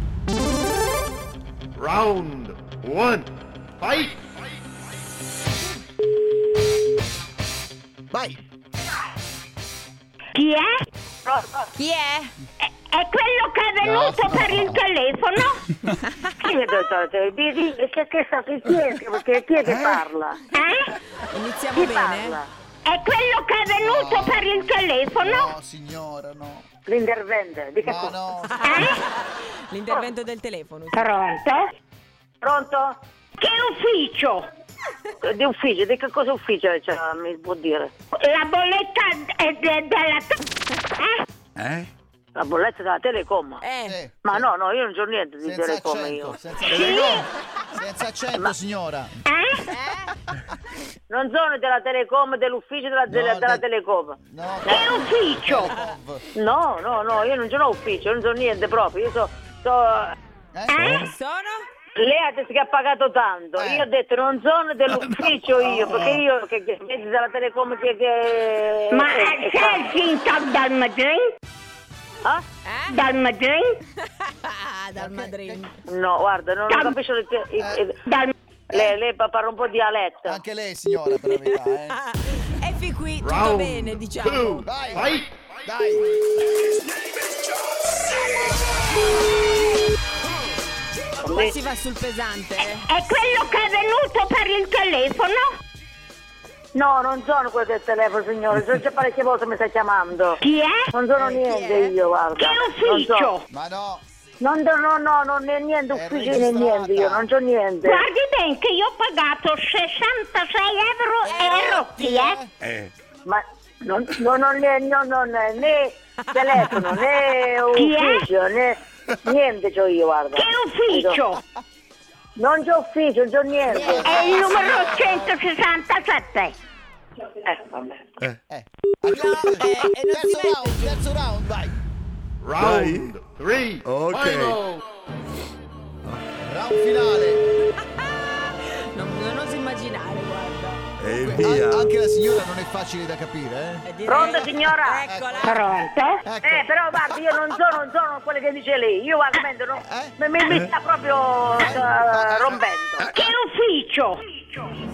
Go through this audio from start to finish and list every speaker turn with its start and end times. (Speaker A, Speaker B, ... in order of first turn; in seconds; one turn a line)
Speaker A: 1.8-4.3
Speaker B: 8.1-8.4
Speaker C: 10.3-10.7
Speaker D: 11.2-11.7
Speaker E: 11.8-12.3
Speaker C: 12.7-15.6
Speaker B: 13.8-14.8
Speaker D: 16.4-20.4
Speaker C: 20.5-20.9
Speaker E: 21.3-22.4
Speaker D: 21.8-22.5
Speaker C: 22.9-25.5
Speaker B: 23.8-26.7
Speaker D: 26.9-28.2
Speaker B: 27.8-28.9
Speaker E: 28.5-31.0
Speaker C: 28.6-29.0
Speaker C: 30.9-31.7
Speaker D: 32.4-33.0
Speaker C: 33.4-34.5
Speaker D: 35.2-37.9
Speaker C: 38.2-40.4
Speaker F: 41.6-41.9
Speaker D: 42.4-43.6
Speaker E: 43.6-44.0
Speaker B: 43.9-44.5
Speaker D: 44.2-46.4
Speaker B: 45.4-49.2
Speaker C: 46.7-47.3
Speaker C: 49.3-49.6
Speaker E: 49.7-50.1
Speaker D: 51.1-55.0
Speaker B: 53.1-53.6
Speaker B: 54.2-56.3
Speaker C: 54.7-55.8
Speaker D: 56.3-60.1
Speaker B: 60.5-61.1
Speaker C: 60.7-61.1
Speaker E: 61.0-61.6
Speaker D: 62.0-70.0
Speaker B: 63.6-63.9
Speaker C: 68.9-71.3
Speaker E: 72.6-73.0
Speaker C: 72.9-73.8
Speaker E: 74.2-75.7
Speaker B: 75.0-75.7
Speaker D: 75.9-78.0
Speaker C: 76.7-77.0
Speaker B: 77.6-77.8
Speaker C: 78.1-78.3
Speaker D: 78.7-80.4
Speaker B: 80.2-82.0
Speaker E: 81.3-84.7
Speaker A: 83.2-85.4
Speaker B: 84.6-85.1
Speaker B: 85.7-86.1
Speaker E: 91.2-92.9
Speaker D: 91.2-91.5
Speaker C: 92.8-95.5
Speaker D: 96.7-100.4
Speaker C: 100.4-100.8
Speaker D: 100.9-103.3
Speaker E: 101.2-102.0
Speaker C: 102.4-103.4
Speaker B: 103.5-104.0
Speaker D: 104.4-108.0
Speaker B: 105.9-107.3
Speaker C: 107.8-112.4
Speaker B: 111.3-112.5
Speaker F: 112.6-112.9
Speaker D: 113.3-121.2
Speaker C: 117.7-118.3
Speaker C: 120.3-121.4
Speaker D: 122.4-124.5
Speaker B: 123.7-125.3
Speaker E: 123.8-124.1
Speaker C: 124.0-126.5
Speaker D: 127.4-128.2
Speaker B: 128.5-131.8
Speaker E: 129.1-131.0
Speaker A: 132.4-134.8
Speaker F: 132.6-133.2
Speaker F: 133.8-134.6
Speaker B: 136.2-137.4
Speaker E: 137.8-140.8
Speaker F: 141.0-141.9
Speaker B: 141.0-143.9
Speaker E: 143.8-145.6
Speaker D: 144.1-145.0
Speaker B: 145.0-145.6
Speaker C: 145.4-146.2
Speaker B: 146.2-146.7
Speaker D: 146.4-153.1
Speaker B: 149.8-150.2
Speaker B: 151.6-152.6
Speaker C: 153.1-154.2